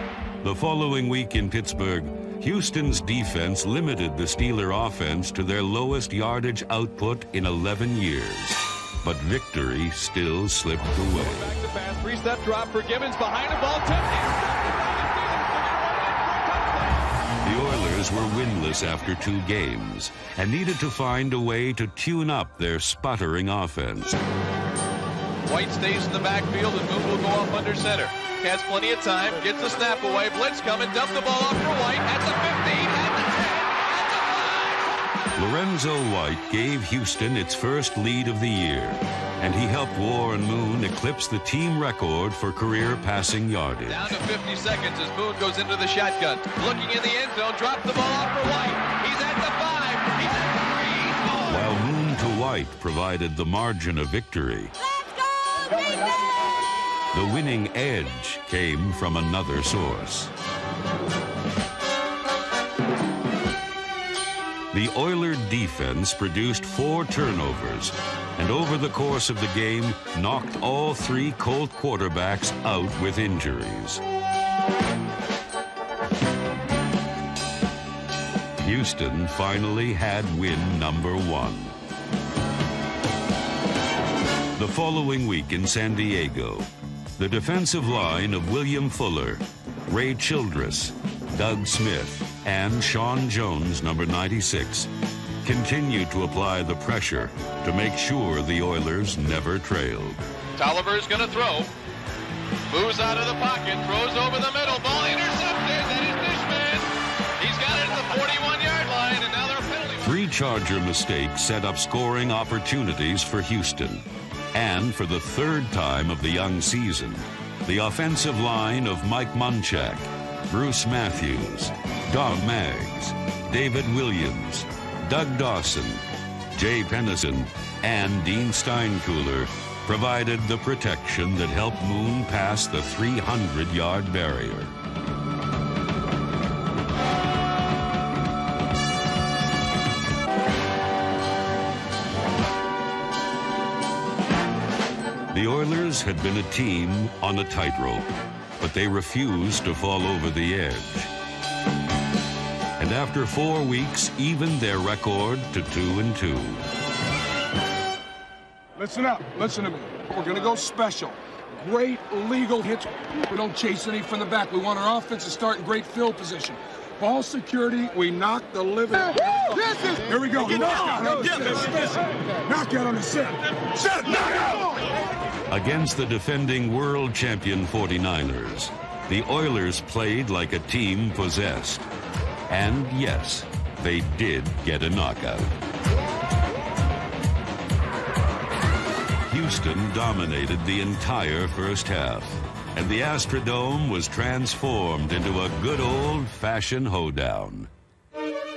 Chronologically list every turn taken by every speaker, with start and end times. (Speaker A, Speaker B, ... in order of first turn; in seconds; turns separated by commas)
Speaker A: 0.4-11.5, Speaker B: 11.1-17.0, Speaker A: 17.4-24.2, Speaker B: 25.5-34.8, Speaker A: 35.4-44.1, Speaker B: 43.9-51.7, Speaker A: 51.5-54.7, Speaker A: 57.1-60.3, Speaker A: 64.7-74.0, Speaker A: 78.6-81.8, Speaker A: 84.5-94.9, Speaker A: 95.4-100.2, Speaker B: 100.6-101.7, Speaker B: 102.7-110.2, Speaker A: 110.0-134.7, Speaker A: 145.3-151.1, Speaker A: 152.8-156.6, Speaker C: 158.8-174.7, Speaker A: 175.5-181.9, Speaker A: 182.5-185.6, Speaker A: 189.3-197.7